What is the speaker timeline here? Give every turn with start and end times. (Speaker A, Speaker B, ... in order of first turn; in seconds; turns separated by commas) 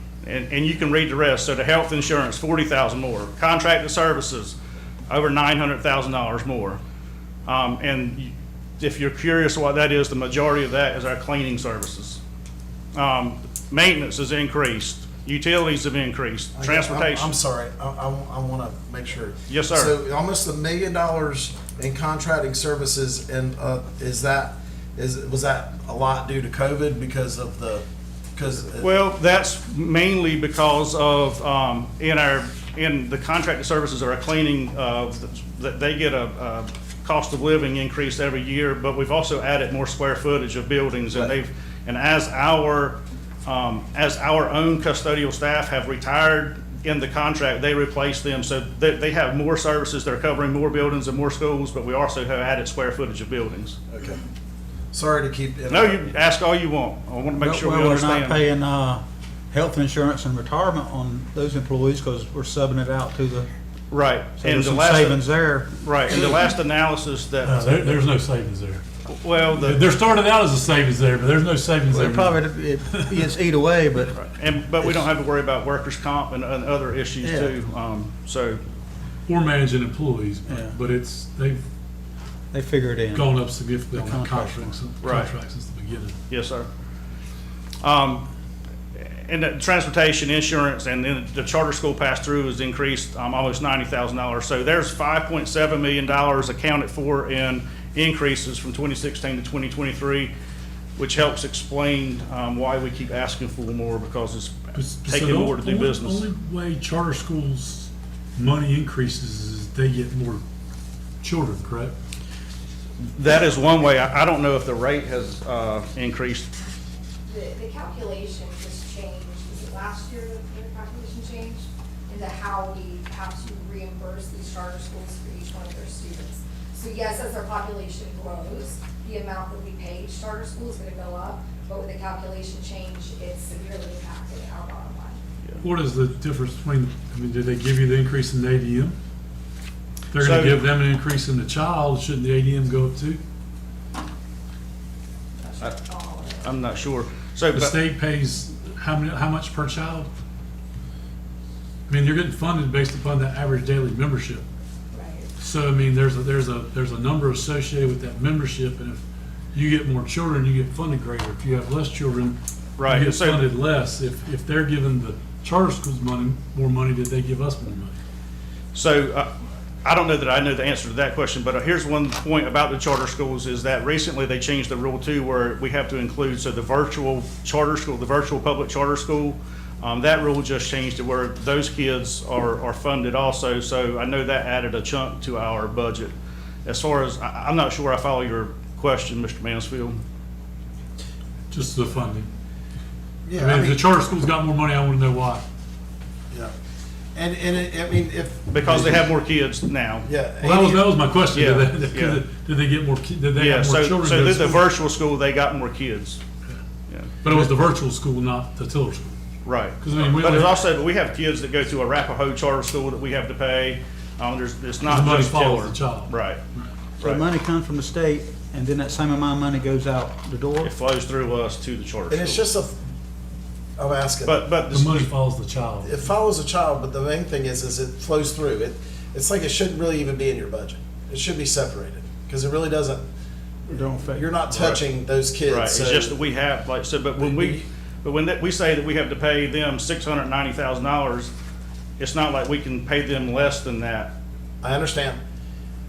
Speaker A: 0.2-4.6, Speaker A: 5.1-6.8, Speaker A: 7.5-12.2, Speaker A: 12.9-17.3, Speaker B: 16.6-27.9, Speaker A: 19.5-19.9, Speaker B: 28.4-28.9, Speaker A: 28.8-53.8, Speaker B: 53.9-54.2, Speaker B: 54.9-56.1, Speaker A: 55.7-58.5, Speaker C: 57.4-63.5, Speaker A: 63.9-68.0, Speaker C: 64.4-65.7, Speaker D: 67.4-68.8, Speaker A: 69.1-69.8, Speaker D: 69.6-73.2, Speaker C: 71.9-74.2, Speaker A: 74.1-78.6, Speaker C: 77.2-77.6, Speaker D: 79.3-81.6, Speaker C: 80.5-80.8, Speaker C: 82.5-83.4, Speaker D: 83.1-86.2, Speaker C: 83.9-84.8, Speaker A: 85.0-85.3, Speaker A: 86.3-86.7, Speaker A: 87.8-88.3, Speaker A: 89.0-100.3, Speaker A: 101.0-106.2, Speaker D: 104.8-110.4, Speaker D: 111.2-111.9, Speaker A: 113.0-116.5, Speaker E: 117.3-135.2, Speaker D: 135.6-139.0, Speaker D: 140.1-143.2, Speaker A: 140.1-140.6, Speaker E: 145.4-146.6, Speaker A: 146.4-147.8, Speaker D: 147.5-150.1, Speaker D: 151.9-154.4, Speaker E: 154.9-155.3, Speaker D: 155.4-159.0, Speaker D: 159.5-167.9, Speaker A: 162.8-163.5, Speaker A: 168.7-169.3, Speaker A: 169.8-186.1, Speaker A: 186.7-190.0, Speaker D: 191.5-192.3, Speaker B: 193.3-193.8, Speaker D: 193.4-195.4, Speaker B: 197.2-199.1, Speaker A: 198.5-200.1, Speaker B: 200.1-201.0, Speaker D: 200.4-204.7, Speaker A: 201.3-202.2, Speaker A: 203.3-206.2, Speaker A: 206.9-207.1, Speaker D: 207.2-209.2, Speaker A: 209.4-216.4, Speaker D: 209.8-210.5, Speaker D: 214.8-216.7, Speaker C: 217.0-220.7, Speaker A: 220.6-222.4, Speaker B: 222.1-222.8, Speaker B: 223.8-224.5, Speaker A: 224.2-225.1, Speaker D: 224.7-226.0, Speaker B: 225.8-233.1, Speaker B: 233.7-236.2, Speaker C: 233.8-234.2, Speaker A: 234.5-234.8, Speaker A: 235.5-241.3, Speaker B: 237.2-237.6, Speaker A: 242.0-244.1, Speaker B: 244.6-245.2